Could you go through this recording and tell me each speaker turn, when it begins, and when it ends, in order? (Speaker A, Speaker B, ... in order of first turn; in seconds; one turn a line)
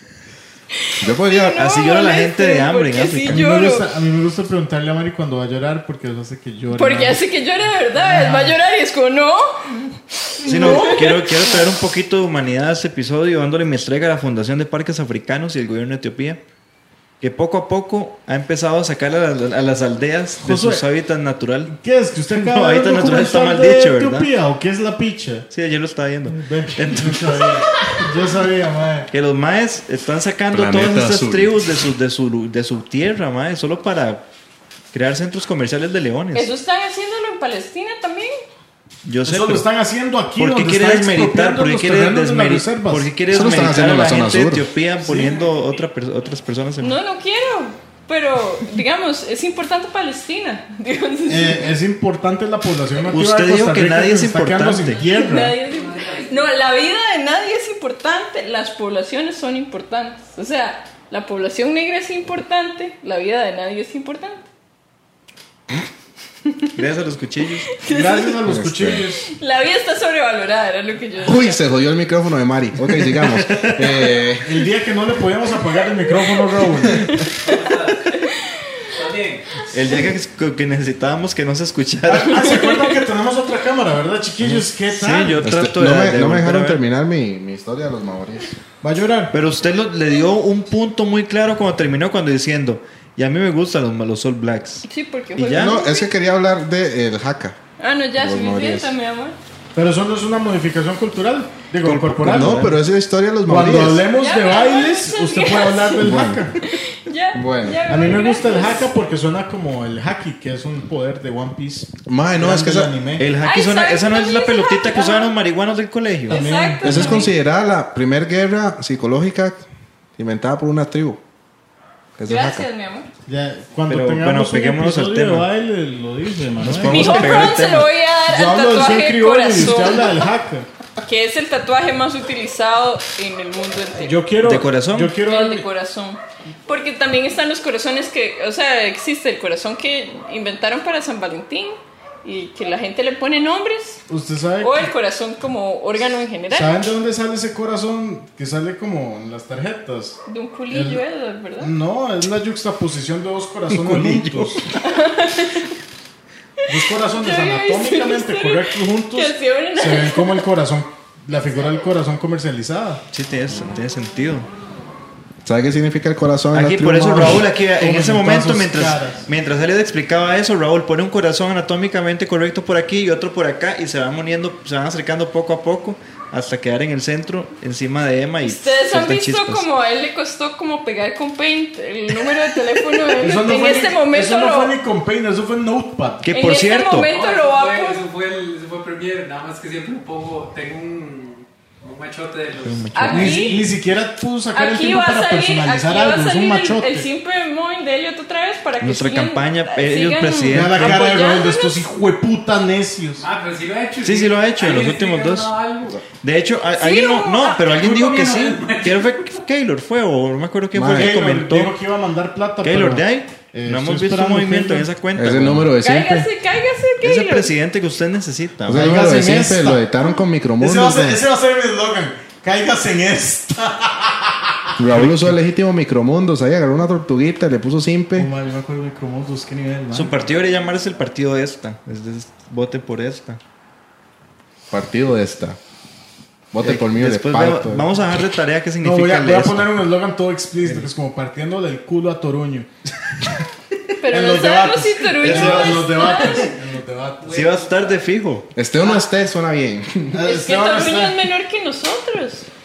Speaker A: 0.7-3.9
Speaker B: 1.0-1.6
Speaker C: 1.5-3.4
Speaker D: 3.2-7.2
Speaker A: 6.7-11.6
Speaker D: 8.0-8.6
Speaker C: 10.4-16.4
Speaker C: 17.2-21.7
Speaker D: 20.4-20.8
Speaker D: 21.7-25.5
Speaker C: 22.3-24.3
Speaker C: 25.5-27.6
Speaker D: 26.3-29.1
Speaker C: 29.1-34.2
Speaker B: 30.5-31.5
Speaker C: 34.9-36.5
Speaker A: 36.3-38.4
Speaker C: 39.0-39.7
Speaker D: 39.2-43.5
Speaker C: 40.4-47.0
Speaker B: 43.3-44.7
Speaker D: 45.0-45.4
Speaker A: 46.8-51.7
Speaker D: 51.3-55.6
Speaker C: 53.1-55.0
Speaker A: 55.0-64.5
Speaker E: 55.7-56.5
Speaker C: 66.8-67.7
Speaker A: 67.8-68.4
Speaker D: 67.8-69.2
Speaker B: 68.5-69.0
Speaker A: 69.2-71.6
Speaker B: 71.2-74.6
Speaker C: 72.9-74.3
Speaker D: 74.4-77.1
Speaker A: 76.9-79.0
Speaker E: 77.4-78.1
Speaker E: 78.9-79.5
Speaker C: 79.7-82.8
Speaker D: 82.1-85.4
Speaker A: 82.4-82.9
Speaker C: 84.4-86.8
Speaker B: 85.4-88.6
Speaker D: 88.8-89.3
Speaker C: 89.3-95.8
Speaker A: 94.8-96.1
Speaker B: 95.5-97.6
Speaker A: 97.8-99.3
Speaker B: 98.2-98.9
Speaker D: 99.7-102.8
Speaker B: 101.8-104.1
Speaker D: 103.5-106.7
Speaker A: 104.1-108.9
Speaker B: 106.0-106.4
Speaker B: 107.3-107.9
Speaker D: 107.9-113.2
Speaker B: 112.1-112.9
Speaker C: 113.2-116.5
Speaker A: 113.4-115.3
Speaker D: 116.3-117.3
Speaker A: 116.3-117.3
Speaker B: 116.8-119.6
Speaker B: 120.2-121.2
Speaker B: 122.2-122.7
Speaker A: 122.2-123.1
Speaker D: 123.3-127.5
Speaker C: 123.9-125.5
Speaker C: 126.6-127.9
Speaker A: 126.8-130.2
Speaker D: 128.3-130.7
Speaker A: 131.0-134.2
Speaker D: 134.0-135.7
Speaker C: 134.4-135.1
Speaker A: 135.2-144.0
Speaker D: 144.1-144.9
Speaker A: 144.6-146.7
Speaker D: 146.5-150.2
Speaker A: 150.3-151.7
Speaker D: 150.7-151.0
Speaker D: 151.6-154.7
Speaker C: 153.7-154.6
Speaker A: 154.8-155.7
Speaker D: 156.7-163.0
Speaker A: 157.0-160.4
Speaker C: 163.1-164.5
Speaker B: 165.4-167.5
Speaker C: 166.5-179.6
Speaker D: 167.7-169.2
Speaker A: 178.4-184.7
Speaker D: 183.1-186.3
Speaker C: 186.2-187.1
Speaker A: 186.3-188.0
Speaker E: 187.0-193.7
Speaker C: 192.6-193.4
Speaker A: 192.9-193.6
Speaker D: 193.1-197.1
Speaker A: 194.5-201.8
Speaker C: 198.8-201.1
Speaker D: 200.5-203.3
Speaker E: 203.2-206.0
Speaker C: 204.0-205.5
Speaker C: 206.1-211.7
Speaker A: 206.7-207.6
Speaker E: 207.5-209.4
Speaker B: 210.7-211.2
Speaker D: 210.9-214.9
Speaker C: 212.6-215.7
Speaker B: 215.2-216.3
Speaker A: 215.8-217.5
Speaker C: 217.0-218.9
Speaker B: 218.7-221.2
Speaker D: 218.7-219.9
Speaker D: 220.6-225.4
Speaker B: 224.8-228.3
Speaker D: 228.2-230.1
Speaker C: 229.9-233.4
Speaker B: 234.7-235.6
Speaker B: 236.5-237.9
Speaker C: 236.6-239.7
Speaker D: 238.8-242.7
Speaker C: 240.6-240.9
Speaker A: 244.0-246.5
Speaker D: 244.1-247.5
Speaker C: 245.2-246.3
Speaker E: 247.2-248.0
Speaker C: 247.3-248.5
Speaker B: 248.5-250.2
Speaker D: 250.1-251.2
Speaker A: 250.2-252.5